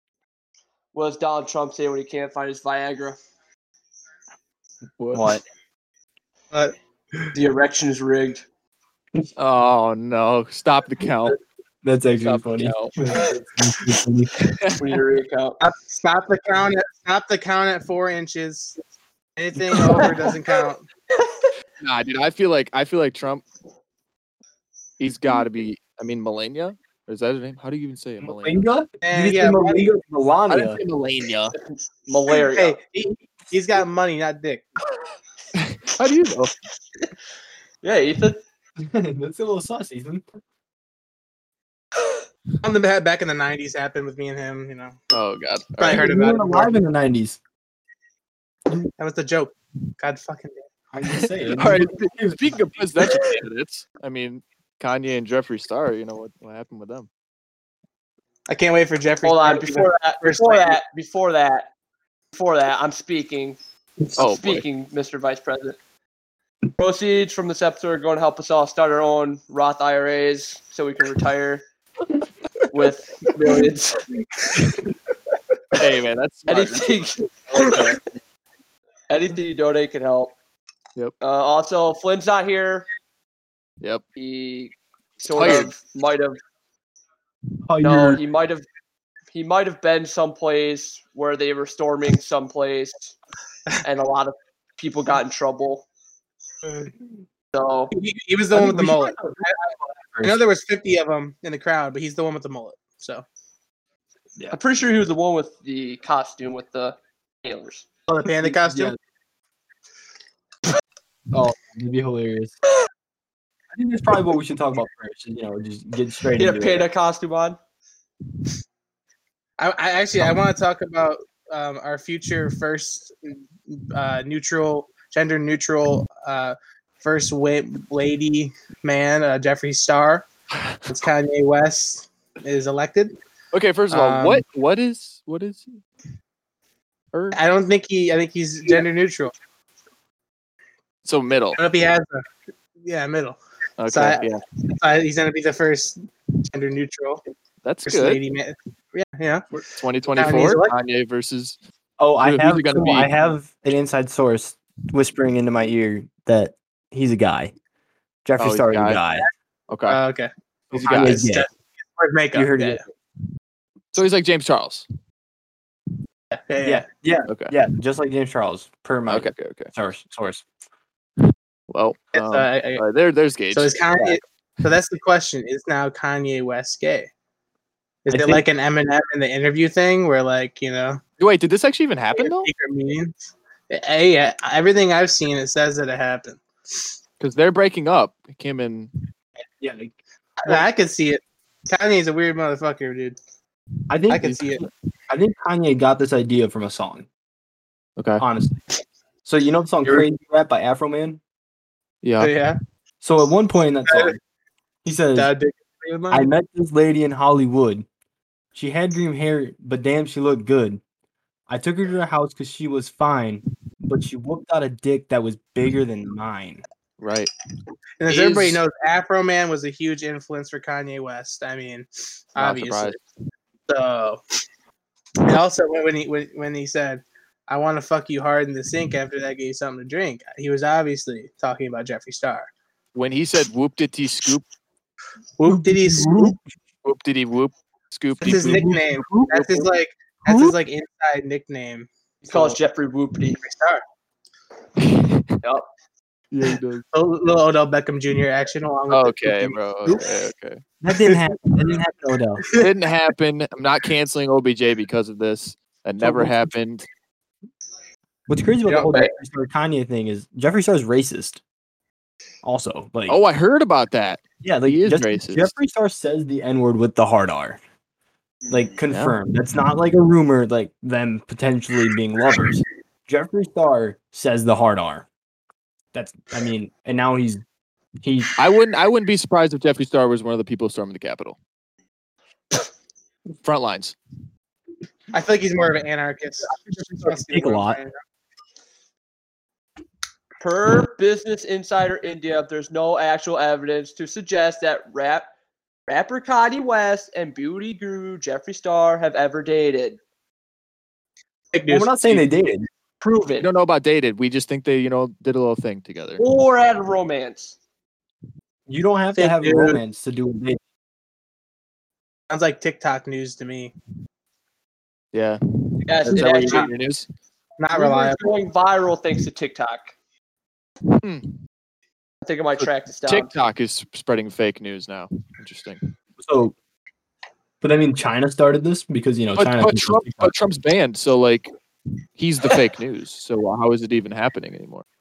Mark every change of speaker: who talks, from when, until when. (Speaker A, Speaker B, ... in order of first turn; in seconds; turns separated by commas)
Speaker A: 0.9-3.2, Speaker B: 5.0-5.3, Speaker C: 5.1-5.4, Speaker D: 6.5-7.3, Speaker A: 7.3-8.4, Speaker B: 9.4-11.4, Speaker C: 11.8-14.5, Speaker B: 12.2-12.9, Speaker B: 14.5-14.8, Speaker A: 14.8-15.6, Speaker D: 15.6-18.8, Speaker D: 19.4-20.9, Speaker A: 19.7-20.3, Speaker A: 21.1-21.5, Speaker B: 21.8-23.4, Speaker B: 25.0-28.7, Speaker C: 28.2-30.8, Speaker D: 29.0-29.9, Speaker B: 30.5-31.6, Speaker A: 31.6-32.8, Speaker D: 32.4-34.7, Speaker B: 35.5-36.5, Speaker A: 37.8-38.4, Speaker C: 38.8-40.2, Speaker D: 42.6-45.0, Speaker B: 45.1-46.1, Speaker D: 45.8-46.8, Speaker C: 45.9-47.4, Speaker D: 49.0-50.6, Speaker C: 50.9-52.5, Speaker B: 51.1-57.1, Speaker D: 58.5-60.8, Speaker A: 59.2-61.7, Speaker A: 62.3-63.6, Speaker A: 64.2-65.8, Speaker B: 64.2-64.6, Speaker A: 66.8-71.6, Speaker A: 72.7-74.1, Speaker B: 75.8-78.1, Speaker A: 76.5-78.0, Speaker A: 79.1-80.3, Speaker A: 81.2-82.9, Speaker A: 84.2-86.4, Speaker B: 85.3-85.7, Speaker C: 87.7-88.2, Speaker A: 87.8-88.6, Speaker A: 89.3-93.1, Speaker A: 93.8-95.9, Speaker A: 97.5-97.9, Speaker D: 97.9-99.6, Speaker C: 98.5-100.4, Speaker D: 100.2-103.2, Speaker A: 104.5-107.9, Speaker D: 108.1-109.0, Speaker C: 108.4-109.0, Speaker C: 111.3-112.6, Speaker C: 113.7-116.9, Speaker A: 116.3-117.6, Speaker D: 119.6-130.3, Speaker D: 130.9-133.1, Speaker B: 133.5-135.8, Speaker D: 133.9-134.4, Speaker B: 137.1-137.4, Speaker D: 137.3-139.3, Speaker B: 141.0-141.6, Speaker D: 141.6-142.2, Speaker D: 142.8-147.2, Speaker B: 143.8-144.4, Speaker B: 147.6-148.2, Speaker D: 147.9-149.5, Speaker B: 149.6-151.6, Speaker D: 150.1-150.8, Speaker C: 152.0-157.5, Speaker B: 152.2-153.1, Speaker C: 158.2-159.3, Speaker B: 158.4-159.0, Speaker B: 159.7-160.0, Speaker D: 159.9-160.3, Speaker B: 160.7-161.2, Speaker C: 160.7-161.5, Speaker D: 160.8-162.8, Speaker C: 162.3-162.9, Speaker B: 163.9-164.9, Speaker D: 166.3-166.8, Speaker C: 166.6-170.4, Speaker B: 167.3-167.5, Speaker B: 169.1-169.7, Speaker B: 171.7-174.1, Speaker D: 172.1-172.8, Speaker D: 173.5-177.1, Speaker D: 178.0-181.0, Speaker C: 178.1-178.4, Speaker B: 181.2-182.5, Speaker D: 182.2-183.1, Speaker D: 183.7-186.4, Speaker B: 187.2-188.9, Speaker C: 189.6-190.6, Speaker D: 190.4-193.2, Speaker C: 193.9-197.1, Speaker D: 194.1-194.7, Speaker B: 198.0-198.2, Speaker C: 198.2-198.6, Speaker C: 199.2-201.2, Speaker B: 202.0-202.3, Speaker D: 202.2-202.6, Speaker C: 203.0-204.2, Speaker D: 203.9-204.1, Speaker C: 204.8-205.3, Speaker D: 205.1-206.3, Speaker C: 206.1-207.8, Speaker C: 208.5-210.8, Speaker C: 211.5-216.6, Speaker B: 217.0-217.3, Speaker D: 218.0-223.0, Speaker B: 218.1-218.6, Speaker B: 222.4-223.0, Speaker D: 223.7-224.2, Speaker D: 225.2-232.5, Speaker B: 232.9-234.4, Speaker D: 235.4-236.4, Speaker C: 235.4-236.4, Speaker B: 236.8-239.7, Speaker D: 238.2-242.6, Speaker C: 238.3-238.7, Speaker C: 240.3-240.5, Speaker A: 242.2-243.4, Speaker D: 243.4-243.8, Speaker B: 244.8-245.4, Speaker A: 245.4-245.7, Speaker B: 246.3-246.8, Speaker D: 246.9-250.1, Speaker B: 248.9-250.6, Speaker C: 250.8-252.4, Speaker D: 251.0-251.3, Speaker B: 252.6-256.9, Speaker C: 256.0-256.5, Speaker C: 258.3-261.4, Speaker D: 258.7-258.9, Speaker C: 262.4-263.2, Speaker B: 263.1-265.5, Speaker C: 264.4-267.6, Speaker C: 268.5-275.1, Speaker B: 268.9-269.2, Speaker C: 275.9-277.4, Speaker C: 278.0-278.3, Speaker B: 278.4-281.4, Speaker B: 283.4-283.9, Speaker D: 285.1-287.9, Speaker C: 286.9-287.8, Speaker A: 290.4-295.3, Speaker A: 295.9-300.0, Speaker D: 301.5-302.2, Speaker C: 301.7-302.7, Speaker A: 303.0-303.5, Speaker B: 303.4-306.2, Speaker A: 306.2-307.6, Speaker C: 308.7-310.6, Speaker D: 309.2-309.8, Speaker D: 312.3-313.7, Speaker B: 315.1-317.1, Speaker A: 315.9-316.7, Speaker D: 317.6-318.3, Speaker A: 317.7-319.9, Speaker B: 320.9-321.3, Speaker A: 322.2-323.3, Speaker B: 322.6-325.9, Speaker C: 326.2-326.5, Speaker C: 327.6-330.3, Speaker B: 329.4-331.5, Speaker B: 332.1-334.8